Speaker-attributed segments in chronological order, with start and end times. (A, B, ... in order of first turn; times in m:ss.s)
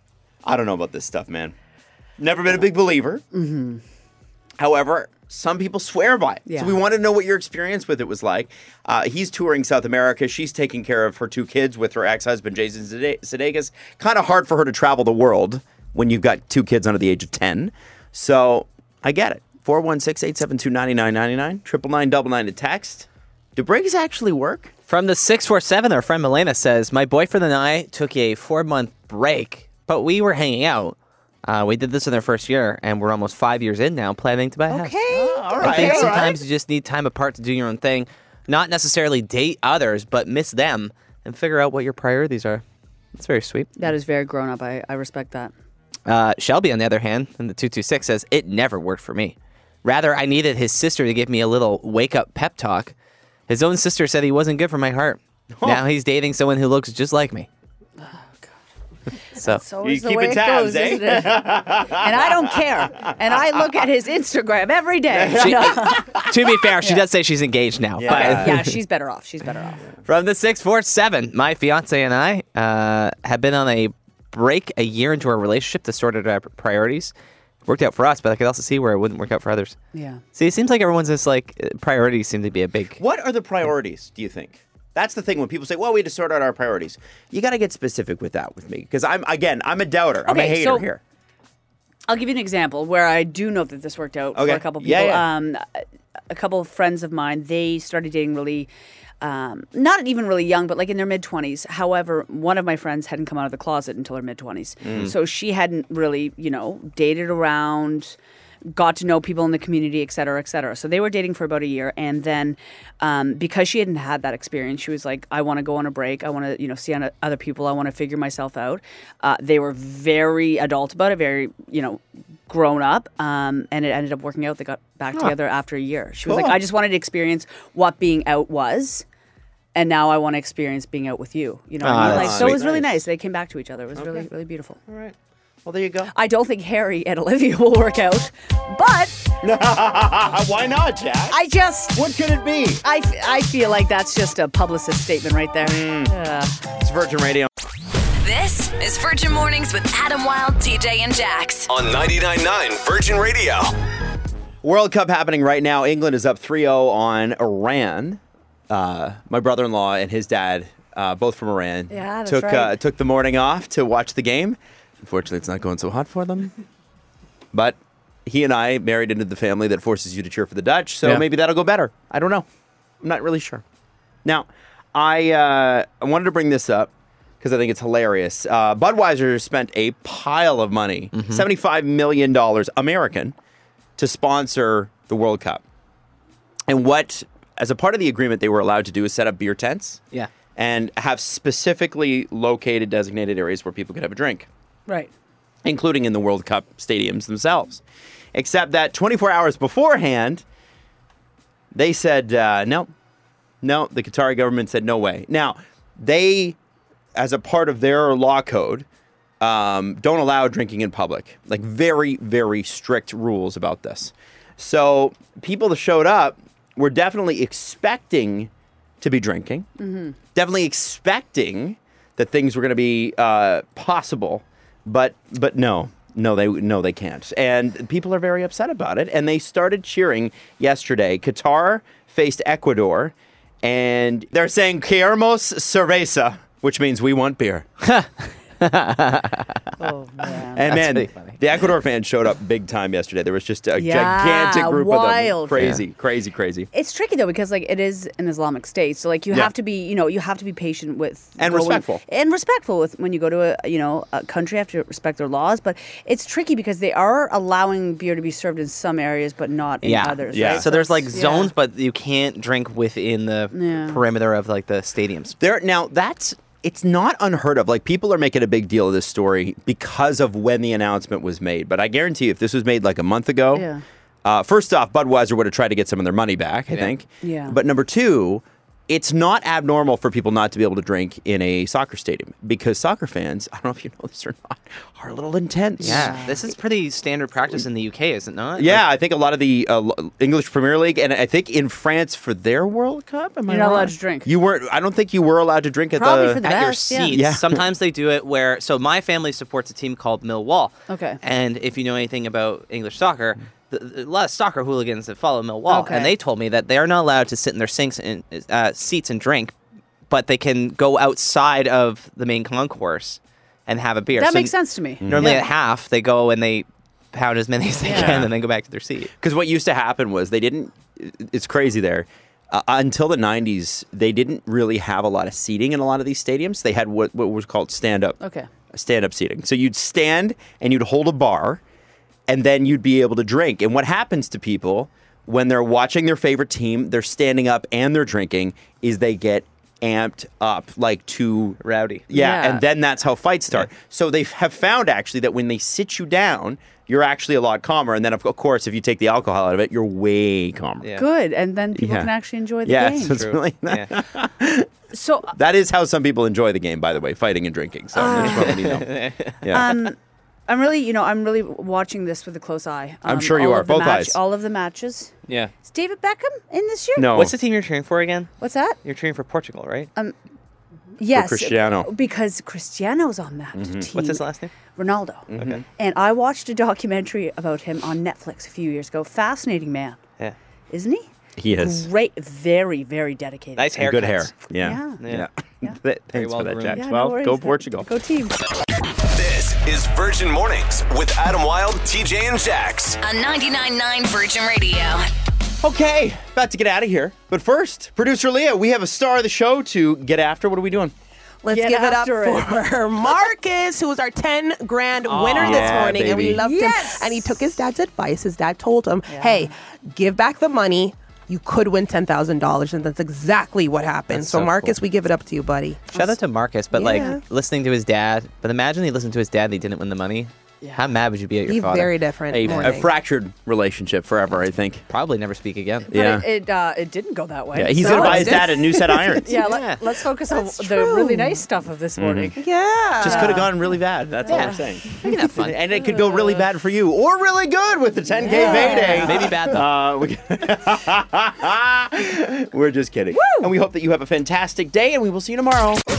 0:00.4-0:01.5 A
0:02.2-0:03.2 A
0:03.3-0:03.8 B
0:04.6-0:24.7 A
0:06.4-0:06.8 B
0:24.9-0:35.0 C
0:34.7-0:36.2 B
0:35.1-0:36.4 A
0:35.6-0:42.6 C
0:43.2-0:43.9 C
0:43.8-0:45.5 B
0:46.0-0:52.9 C
0:53.5-0:57.5 C
0:55.5-0:55.8 A
0:58.0-0:58.5 B
0:59.3-0:59.6 C
0:59.3-1:06.1 B
0:59.8-1:03.4 A
1:05.1-1:06.6 A
1:05.4-1:08.7 C
1:08.0-1:08.6 A
1:08.1-1:09.8 B
1:10.0-1:17.1 C
1:17.6-1:19.8 C
1:19.9-1:20.2 B
1:20.3-1:23.0 C
1:23.0-1:31.0 A
1:30.2-1:30.8 B
1:32.1-1:38.7 B
1:34.3-1:35.3 A
1:39.2-1:48.2 B
1:44.8-1:45.1 A
1:48.7-2:09.0 B
2:06.2-2:06.6 A
2:09.7-2:14.8 B
2:11.8-2:12.6 C
2:12.0-2:13.0 A
2:13.9-2:14.3 A
2:14.9-2:16.1 A
2:16.1-2:19.3 B
2:19.4-2:21.4 A
2:21.3-2:22.0 B
2:21.9-2:22.8 A
2:22.8-2:26.5 B
2:25.6-2:27.5 A
2:28.2-2:31.7 D
2:31.1-2:33.7 E
2:34.6-2:46.5 A
2:41.9-2:42.8 B
2:47.5-2:52.4 A
2:53.0-2:53.6 A
2:54.2-2:56.9 A
2:57.4-3:03.3 A
3:01.1-3:01.4 C
3:04.0-3:05.6 A
3:06.7-3:10.0 A
3:10.6-3:14.5 A
3:14.9-3:15.1 B
3:15.6-3:17.8 A
3:18.3-3:20.4 A
3:21.7-3:22.9 A
3:23.6-3:26.6 A
3:27.1-3:28.9 A
3:29.4-3:38.5 A
3:39.0-3:39.7 A
3:39.8-3:40.2 B
3:40.3-3:57.6 A
3:57.8-3:59.8 C
3:59.8-4:00.7 B
4:00.5-4:06.7 A
4:00.6-4:01.4 C
4:03.8-4:05.6 B
4:05.5-4:05.8 C
4:06.7-4:21.5 B
4:11.4-4:12.0 A
4:19.8-4:25.4 C
4:20.3-4:20.7 A
4:23.5-4:24.0 B
4:25.4-4:33.7 A
4:33.5-4:33.8 B
4:34.2-4:46.2 A
4:37.2-4:37.6 B
4:45.8-4:48.8 C
4:45.8-4:46.4 B
4:48.6-4:56.4 A
4:53.5-4:54.3 B
4:55.9-4:57.2 B
4:56.4-5:09.5 C
4:57.0-4:57.6 A
5:00.9-5:01.2 B
5:05.7-5:06.1 B
5:10.1-5:19.1 C
5:14.2-5:15.4 B
5:15.0-5:15.4 A
5:17.8-5:18.2 B
5:17.8-5:18.3 A
5:19.2-5:28.2 A
5:28.2-5:28.5 B
5:28.7-5:31.6 A
5:32.3-5:50.9 A
5:41.6-5:42.0 C
5:42.1-5:42.6 B
5:51.0-5:53.2 B
5:51.7-5:52.1 A
5:52.6-5:54.7 A
5:53.0-5:53.9 C
5:54.9-5:55.3 B
5:55.3-5:58.9 A
5:58.0-5:58.5 B
5:58.1-5:59.7 C
5:59.4-5:59.7 A
5:59.5-6:00.0 B
6:00.5-6:05.1 B
6:03.0-6:04.2 A
6:05.3-6:05.5 C
6:05.6-6:07.2 B
6:07.0-6:07.3 A
6:07.1-6:08.3 C
6:08.4-6:08.8 B
6:08.8-6:09.9 C
6:11.0-6:20.0 B
6:11.1-6:11.9 A
6:13.5-6:13.9 A
6:13.9-6:14.6 C
6:15.3-6:15.6 A
6:15.3-6:15.6 C
6:20.7-6:23.7 B
6:21.4-6:21.9 A
6:23.6-6:25.3 C
6:23.8-6:27.9 A
6:24.6-6:25.0 B
6:26.1-6:26.9 C
6:26.7-6:28.4 B
6:29.1-6:34.0 E
6:33.0-6:35.0 D
6:34.6-6:35.0 E
6:35.6-6:40.9 A
6:41.4-6:56.0 F
6:41.5-6:42.7 B
6:45.1-6:46.2 C
6:45.1-6:46.4 A
6:46.3-6:47.4 B
6:49.1-6:49.5 B
6:54.1-6:54.8 C
6:55.9-7:02.8 C
6:56.7-6:57.2 F
7:00.6-7:00.9 B
7:01.4-7:02.9 F
7:02.3-7:04.8 A
7:04.9-7:05.9 C
7:05.9-7:08.6 B
7:05.9-7:06.2 A
7:07.5-7:09.4 A
7:07.8-7:09.2 F
7:09.1-7:12.4 B
7:09.4-7:09.8 C
7:10.3-7:11.4 F
7:12.0-7:12.3 A
7:12.4-7:13.5 F
7:13.0-7:13.5 B
7:13.0-7:25.8 A
7:14.3-7:15.6 C
7:14.3-7:14.6 B
7:18.2-7:18.8 F
7:18.3-7:19.3 B
7:18.5-7:19.6 C
7:23.1-7:23.5 B